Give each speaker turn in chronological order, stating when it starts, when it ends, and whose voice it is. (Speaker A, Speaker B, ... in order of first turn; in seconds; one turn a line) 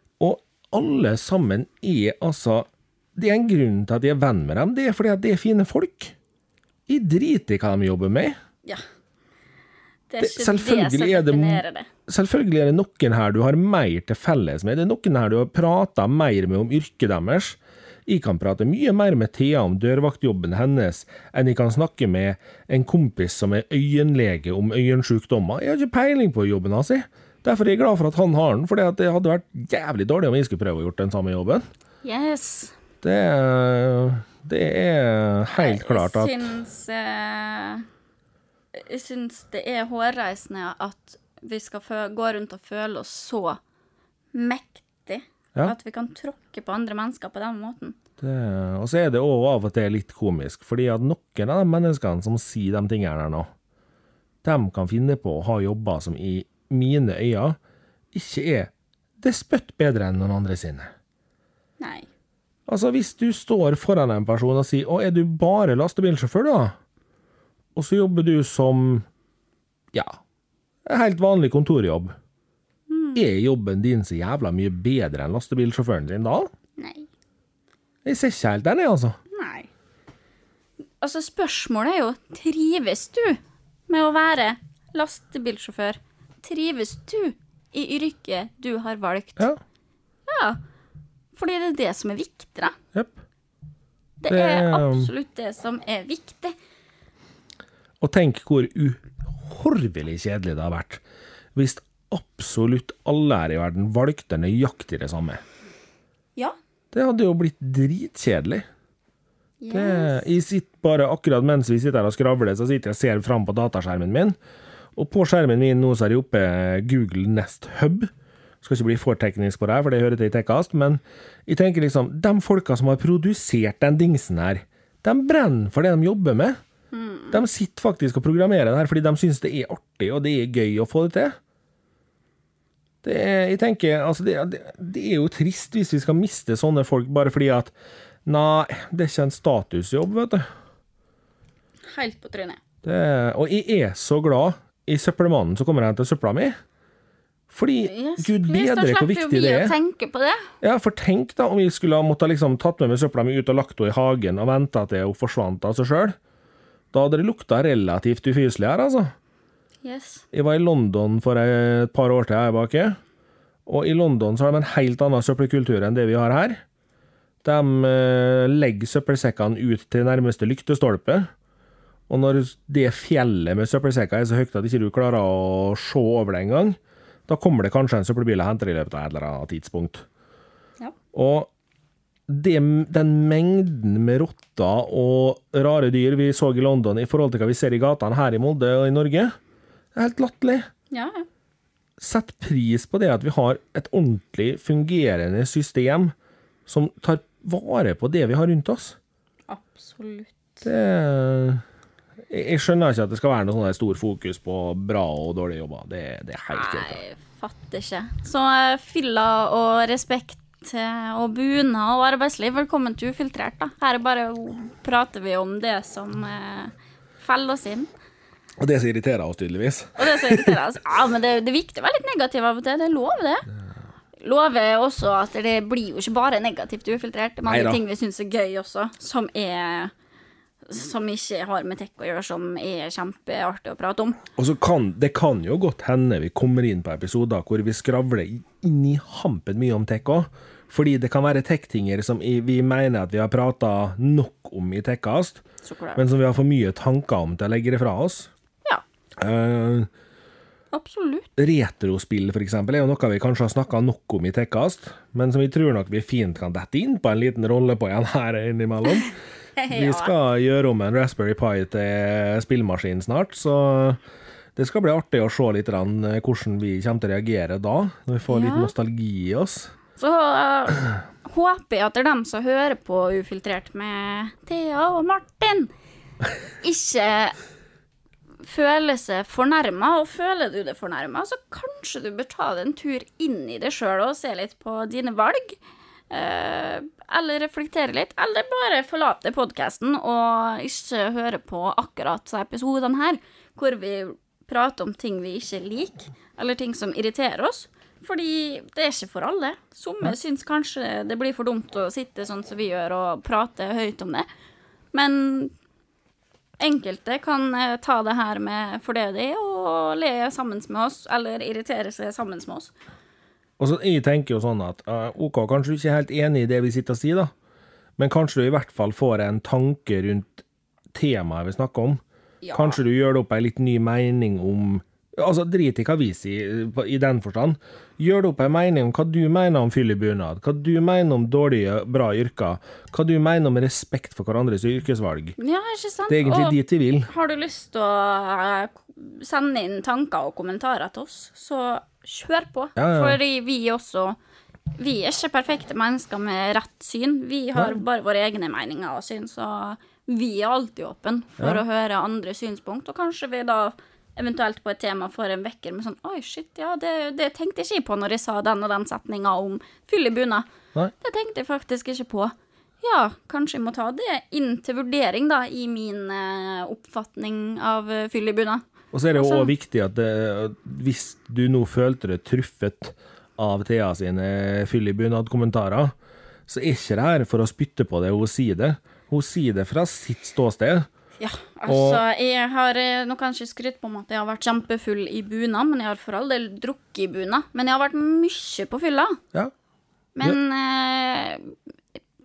Speaker A: 0.2-6.1
Speaker A: 6.9-8.4
Speaker B: 10.1-11.9
Speaker A: 10.2-31.6
Speaker B: 32.0-32.7
Speaker A: 33.0-36.5
Speaker B: 35.5-37.9
Speaker B: 38.7-43.6
Speaker B: 44.3-48.0
Speaker A: 48.2-53.5
Speaker A: 54.4-57.6
Speaker A: 58.1-60.9
Speaker B: 61.8-62.1
Speaker A: 62.7-66.8
Speaker A: 67.8-69.0
Speaker A: 70.9-72.1
Speaker B: 72.9-73.2
Speaker A: 73.1-76.5
Speaker B: 76.8-77.1
Speaker A: 78.0-79.2
Speaker B: 79.3-79.7
Speaker B: 81.0-89.5
Speaker B: 90.3-90.6
Speaker B: 91.3-92.8
Speaker A: 92.9-93.2
Speaker B: 94.2-96.5
Speaker A: 94.3-95.1
Speaker A: 98.0-101.0
Speaker A: 101.5-105.4
Speaker A: 106.9-108.7
Speaker B: 109.6-110.2
Speaker A: 109.7-114.4
Speaker A: 115.0-118.1
Speaker A: 118.6-126.6
Speaker B: 126.9-127.4
Speaker A: 127.3-131.4
Speaker A: 133.0-137.7
Speaker A: 138.3-140.4
Speaker B: 141.9-142.6
Speaker A: 142.8-146.6
Speaker A: 147.5-149.8
Speaker B: 147.9-150.5
Speaker A: 150.6-156.2
Speaker A: 156.9-159.1
Speaker B: 159.8-160.2
Speaker A: 160.3-163.0
Speaker A: 163.7-166.6
Speaker A: 167.4-171.3
Speaker A: 172.1-180.1
Speaker A: 181.1-181.5
Speaker A: 182.3-189.3
Speaker A: 189.9-190.7
Speaker B: 190.9-191.3
Speaker A: 192.0-196.1
Speaker A: 196.7-199.0
Speaker B: 199.5-200.6
Speaker A: 200.6-201.6
Speaker A: 202.3-207.0
Speaker B: 206.5-217.9
Speaker A: 218.6-220.6
Speaker B: 220.0-223.4
Speaker B: 224.2-229.9
Speaker A: 227.5-227.8
Speaker B: 230.6-234.2
Speaker A: 234.4-245.4
Speaker B: 245.6-246.0
Speaker A: 245.9-248.3
Speaker A: 249.2-249.9
Speaker B: 250.7-251.3
Speaker A: 251.4-259.1
Speaker B: 259.6-260.1
Speaker A: 259.7-264.0
Speaker A: 264.6-269.7
Speaker B: 268.3-268.7
Speaker B: 270.0-275.7
Speaker B: 276.6-277.4
Speaker B: 278.4-285.6
Speaker B: 286.1-304.3
Speaker B: 304.9-305.5
Speaker B: 306.6-312.7
Speaker A: 313.6-317.3
Speaker A: 318.0-322.0
Speaker B: 322.4-322.8
Speaker A: 322.5-335.4
Speaker B: 335.4-344.2
Speaker A: 336.1-337.1
Speaker A: 342.8-343.2
Speaker B: 344.7-360.5
Speaker A: 347.6-347.8
Speaker B: 361.0-368.6
Speaker A: 368.9-375.9
Speaker B: 369.2-369.5
Speaker A: 376.5-380.9
Speaker B: 381.2-389.2
Speaker A: 381.7-382.0
Speaker B: 390.1-391.6